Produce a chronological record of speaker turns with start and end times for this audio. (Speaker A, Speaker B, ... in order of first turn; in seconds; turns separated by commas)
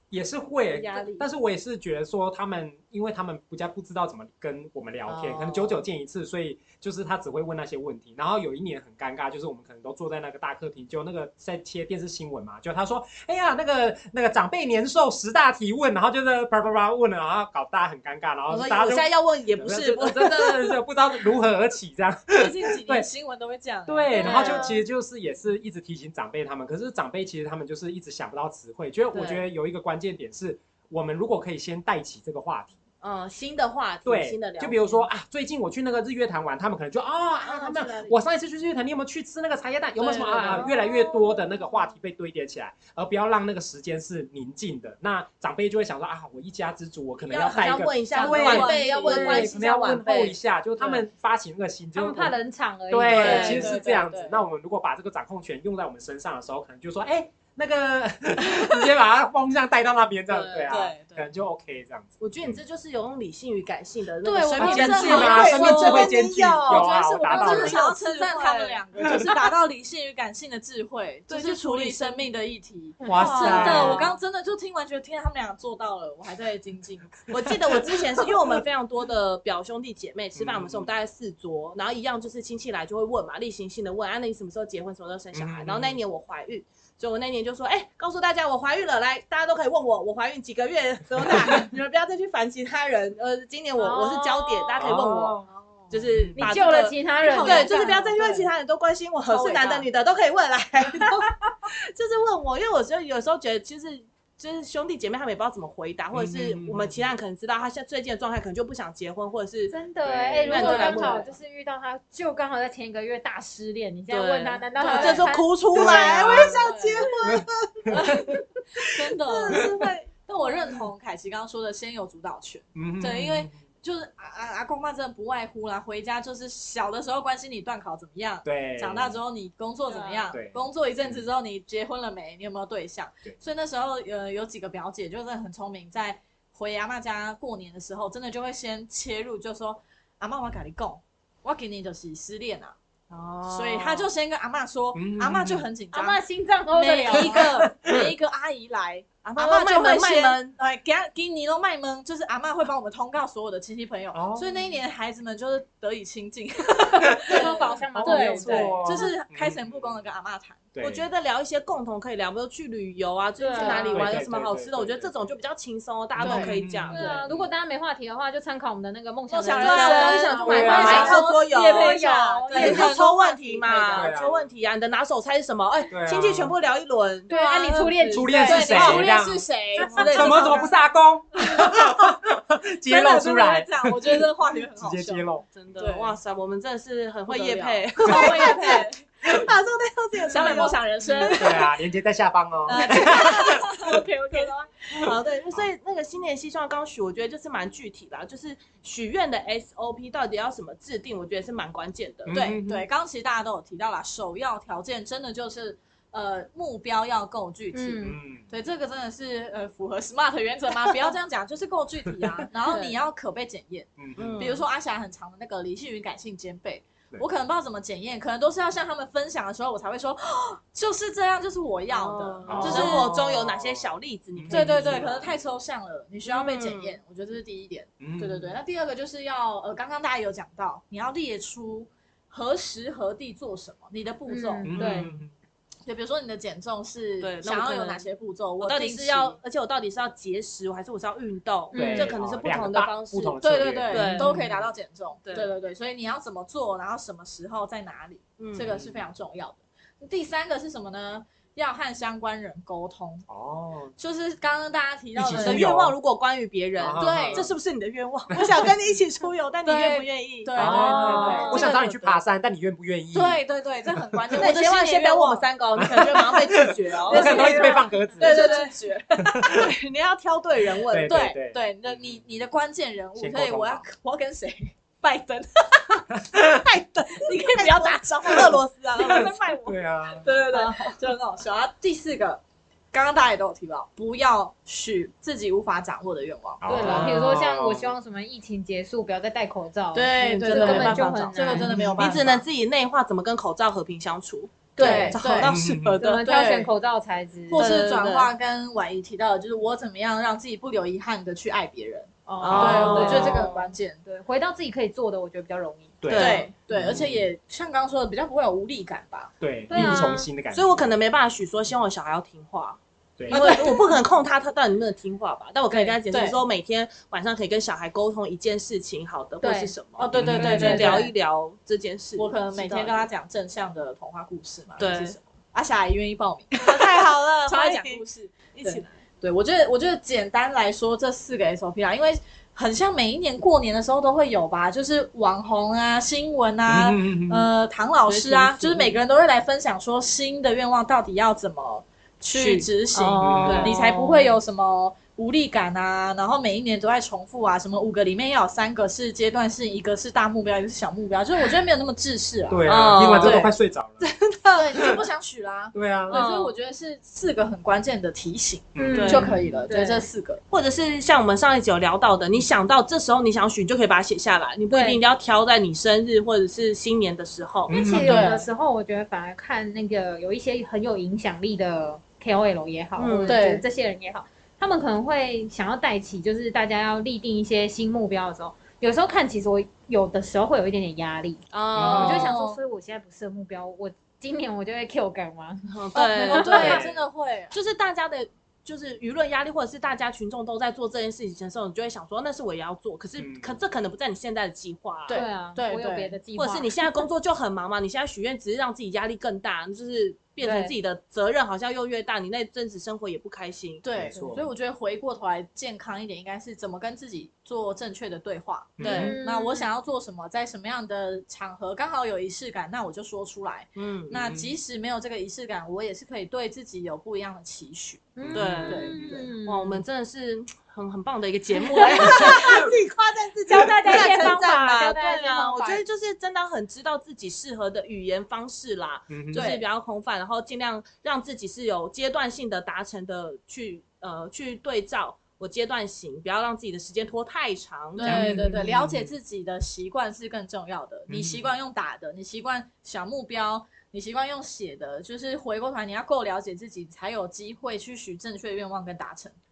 Speaker A: 0.1-19.1, Speaker B: 0.7-1.3, Speaker B: 5.1-5.8, Speaker B: 18.5-20.8, Speaker A: 19.6-23.1, Speaker C: 22.3-24.4, Speaker A: 23.9-32.8, Speaker B: 24.1-24.8, Speaker D: 24.1-24.8, Speaker B: 29.1-29.4, Speaker B: 33.0-35.0, Speaker A: 34.0-52.4, Speaker B: 37.4-38.1, Speaker C: 40.0-40.7, Speaker B: 40.2-40.7, Speaker B: 47.2-51.0, Speaker C: 47.5-49.5, Speaker D: 48.2-48.8, Speaker D: 52.0-53.7, Speaker A: 52.9-62.6, Speaker C: 53.1-54.4, Speaker B: 53.1-54.0, Speaker B: 60.3-61.0, Speaker C: 60.7-61.2, Speaker B: 62.2-68.8, Speaker C: 64.2-77.2, Speaker A: 64.6-67.8, Speaker B: 71.3-72.2, Speaker D: 73.0-73.6, Speaker A: 73.1-74.1, Speaker B: 73.2-74.2, Speaker B: 77.3-95.4, Speaker A: 80.3-80.9, Speaker A: 85.3-86.0, Speaker D: 93.8-94.9, Speaker A: 94.8-95.5, Speaker C: 95.5-95.9, Speaker B: 95.9-109.7, Speaker A: 96.1-96.4, Speaker D: 96.4-98.0, Speaker C: 97.2-98.5, Speaker C: 99.3-99.9, Speaker A: 106.1-107.1, Speaker D: 109.7-115.5, Speaker A: 110.0-110.7, Speaker B: 110.4-111.3, Speaker C: 110.5-111.3, Speaker B: 114.1-118.2, Speaker C: 114.8-115.3, Speaker A: 115.7-116.7, Speaker C: 115.8-117.1, Speaker A: 117.2-118.4, Speaker C: 117.9-142.8, Speaker B: 119.3-120.1, Speaker A: 122.8-123.6, Speaker A: 128.4-129.2, Speaker D: 129.9-130.4, Speaker A: 130.3-131.2, Speaker B: 143.1-144.1, Speaker C: 143.5-160.7, Speaker A: 144.9-145.7, Speaker D: 145.9-147.4, Speaker A: 147.2-148.1, Speaker B: 149.3-150.6, Speaker A: 154.1-154.5, Speaker A: 157.2-160.1, Speaker D: 157.3-158.8, Speaker A: 160.8-161.1, Speaker B: 160.8-167.2, Speaker D: 163.4-164.1, Speaker C: 163.6-163.9, Speaker A: 163.9-165.1, Speaker A: 166.2-167.5, Speaker C: 166.2-167.1, Speaker D: 166.9-173.0, Speaker C: 169.3-174.2, Speaker B: 169.5-179.2, Speaker A: 170.5-171.2, Speaker A: 174.0-174.5, Speaker A: 175.9-176.6, Speaker D: 177.3-178.9, Speaker A: 178.1-179.4, Speaker C: 178.4-180.7, Speaker B: 179.8-180.7, Speaker D: 180.0-180.3, Speaker A: 180.0-185.9, Speaker C: 181.4-181.9, Speaker C: 182.9-186.2, Speaker B: 185.6-191.7, Speaker C: 187.3-189.3, Speaker A: 188.1-188.6, Speaker C: 190.3-191.7, Speaker A: 191.3-193.9, Speaker C: 192.7-195.1, Speaker B: 192.7-202.4, Speaker A: 202.3-202.9, Speaker C: 202.3-223.1, Speaker D: 207.7-208.2, Speaker A: 208.0-208.5, Speaker D: 212.7-213.0, Speaker A: 214.0-214.5, Speaker B: 214.2-214.6, Speaker B: 221.9-225.3, Speaker A: 222.5-225.2, Speaker C: 224.5-234.8, Speaker B: 226.3-227.0, Speaker A: 228.0-228.6, Speaker D: 234.3-235.2, Speaker A: 234.6-235.3, Speaker B: 234.8-235.1, Speaker C: 235.9-239.4, Speaker B: 237.2-238.1, Speaker B: 238.6-243.4, Speaker D: 241.7-242.2, Speaker A: 241.8-244.7, Speaker C: 243.4-253.2, Speaker B: 243.9-244.3, Speaker B: 248.4-248.7, Speaker A: 248.7-249.0, Speaker A: 253.3-253.9, Speaker C: 254.0-255.7, Speaker A: 255.2-256.0, Speaker B: 255.4-262.2, Speaker A: 256.8-257.5, Speaker C: 257.0-257.5, Speaker C: 259.6-261.9, Speaker A: 260.6-263.4, Speaker D: 261.2-261.7, Speaker C: 263.1-265.5, Speaker A: 264.1-264.4, Speaker B: 264.4-268.7, Speaker A: 265.8-268.6, Speaker C: 267.1-269.3, Speaker D: 267.2-267.6, Speaker A: 269.2-269.7, Speaker B: 269.4-271.2, Speaker A: 270.9-272.2, Speaker C: 271.1-276.1, Speaker A: 273.2-273.9, Speaker B: 276.3-279.7, Speaker C: 277.2-286.7, Speaker A: 279.0-280.3, Speaker B: 280.2-280.9, Speaker A: 286.6-287.9, Speaker D: 286.7-291.7, Speaker C: 289.9-292.4, Speaker B: 290.3-296.3, Speaker A: 291.6-292.1, Speaker C: 294.8-295.5, Speaker A: 294.8-296.0, Speaker D: 296.0-297.8, Speaker C: 296.2-296.7, Speaker C: 297.5-304.0, Speaker B: 297.5-298.3, Speaker D: 302.3-306.0, Speaker B: 302.4-303.6, Speaker A: 302.5-303.2, Speaker A: 306.0-307.3, Speaker B: 306.1-306.5, Speaker C: 306.1-309.3, Speaker A: 309.4-310.8, Speaker D: 309.7-310.3, Speaker B: 309.7-323.1, Speaker A: 313.2-313.5, Speaker C: 313.3-313.9, Speaker C: 315.7-316.4, Speaker D: 319.4-319.8, Speaker C: 320.0-321.1, Speaker A: 320.1-320.9, Speaker D: 320.4-321.1, Speaker C: 322.2-353.5, Speaker B: 324.8-325.2, Speaker B: 326.6-328.9, Speaker A: 336.7-337.5, Speaker B: 338.1-339.0, Speaker B: 342.3-342.7, Speaker D: 342.9-344.4, Speaker A: 343.2-343.7, Speaker B: 343.4-343.8, Speaker A: 352.5-354.1, Speaker B: 352.7-353.4, Speaker B: 354.0-355.0, Speaker C: 354.6-360.4, Speaker A: 355.7-356.2, Speaker B: 356.1-356.6, Speaker A: 358.8-359.6, Speaker D: 358.8-360.1, Speaker B: 358.9-359.3, Speaker B: 360.5-367.8, Speaker D: 364.7-365.0, Speaker A: 367.7-368.3, Speaker D: 367.7-386.8, Speaker C: 368.0-368.5, Speaker B: 373.0-373.4, Speaker C: 373.3-373.6, Speaker B: 381.5-382.3, Speaker A: 381.8-382.3, Speaker C: 381.8-382.6, Speaker B: 385.7-386.9, Speaker C: 386.0-387.6, Speaker A: 386.5-387.0, Speaker B: 387.5-395.2, Speaker A: 393.2-393.6, Speaker C: 395.1-396.2, Speaker D: 395.1-396.9, Speaker B: 396.4-403.8, Speaker D: 400.4-400.7, Speaker C: 403.8-419.2, Speaker A: 403.9-404.5, Speaker A: 408.8-409.1, Speaker B: 408.8-409.2, Speaker D: 408.9-409.7, Speaker B: 413.8-414.2, Speaker A: 414.2-414.5, Speaker D: 418.2-419.8, Speaker A: 418.2-419.2, Speaker B: 418.3-418.9, Speaker B: 419.4-438.5, Speaker D: 421.8-422.6, Speaker C: 421.9-422.4, Speaker D: 423.6-425.8, Speaker C: 423.9-424.3, Speaker A: 429.1-429.5, Speaker C: 429.3-429.6, Speaker C: 438.0-449.4, Speaker A: 438.0-439.1, Speaker A: 441.1-441.6